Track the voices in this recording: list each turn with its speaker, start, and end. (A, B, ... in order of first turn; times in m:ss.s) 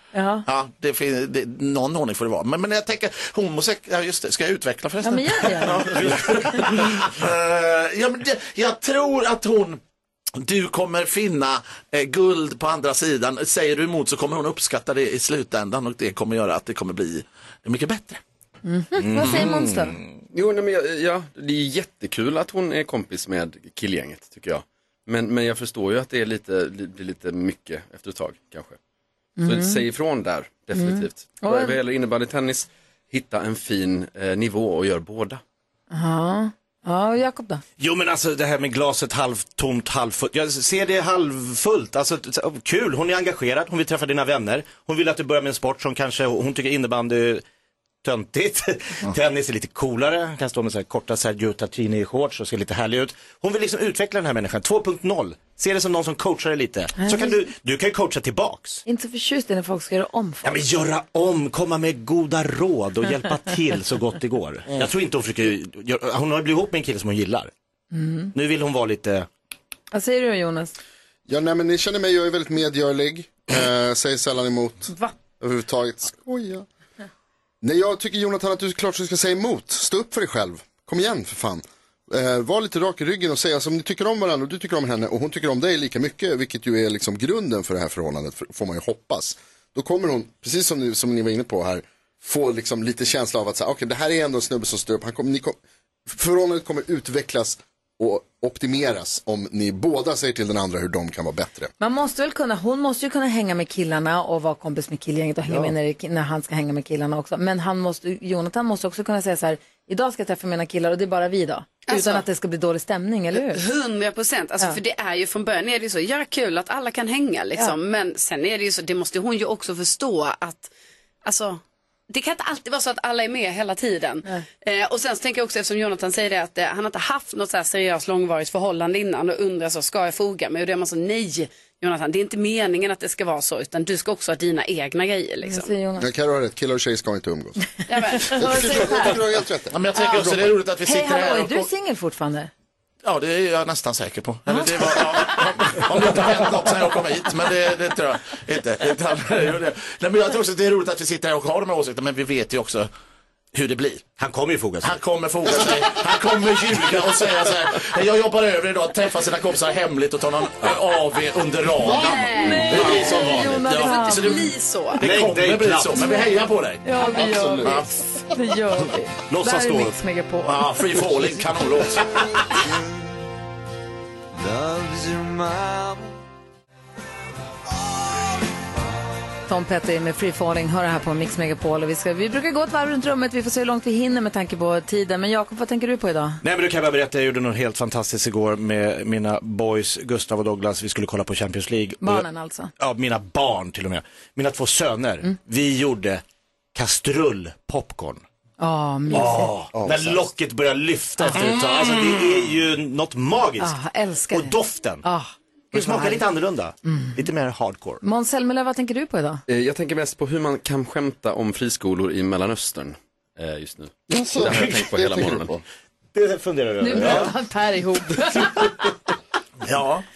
0:00.1-0:00.5 A
0:00.5-0:09.8 B
0:05.0-0:06.0 A
0:05.9-0:06.7 C
0:10.4-0:18.2 B
0:18.6-0:20.0 A
0:19.2-0:19.5 B
0:20.3-0:28.8 D
0:29.4-0:29.8 A
0:29.4-0:35.4 D
0:30.8-0:31.8 A
0:35.9-0:37.6 A
0:37.8-0:47.4 C
0:48.0-0:58.8 C
0:57.0-0:57.4 A
0:58.9-1:00.6 A
1:00.4-1:07.5 C
1:07.9-1:08.3 A
1:08.3-1:09.3 C
1:09.9-1:10.8 A
1:11.3-1:16.7 E
1:17.6-1:41.7 E
1:41.8-1:53.6 A
1:45.5-1:45.7 E
1:51.9-1:52.2 F
1:53.4-2:00.7 F
2:01.2-2:15.7 F
2:15.5-2:16.1 A
2:16.0-2:17.6 E
2:17.9-2:19.2 F
2:18.1-2:19.8 E
2:18.2-2:19.2 A
2:19.7-2:21.7 B
2:20.8-2:22.5 A
2:23.0-2:32.9 B
2:24.5-2:25.1 A
2:33.5-2:34.1 B
2:34.2-2:35.0 C
2:34.8-2:46.8 B
2:41.8-2:42.8 E
2:41.9-2:42.8 F
2:42.3-2:44.5 A
2:42.7-2:43.6 C
2:43.7-2:45.0 F
2:45.0-2:46.1 C
2:46.8-2:50.8 A
2:47.1-2:47.9 E
2:47.6-2:47.9 B
2:49.3-2:50.0 C
2:50.4-2:52.3 B
2:59.5-3:06.4 A
3:06.4-3:12.2 C
3:12.0-3:12.7 A
3:12.8-3:16.2 C
3:16.8-3:18.2 C
3:18.6-3:19.6 A
3:19.1-3:23.8 C
3:19.7-3:20.2 E
3:23.6-3:26.2 A
3:24.3-3:25.0 C
3:25.7-3:28.0 C
3:26.8-3:27.2 A
3:28.0-3:29.4 A
3:29.5-3:35.6 D
3:34.1-3:35.5 E
3:34.4-3:34.9 C
3:36.1-3:37.3 C
3:36.8-3:38.8 A
3:39.7-3:40.0 B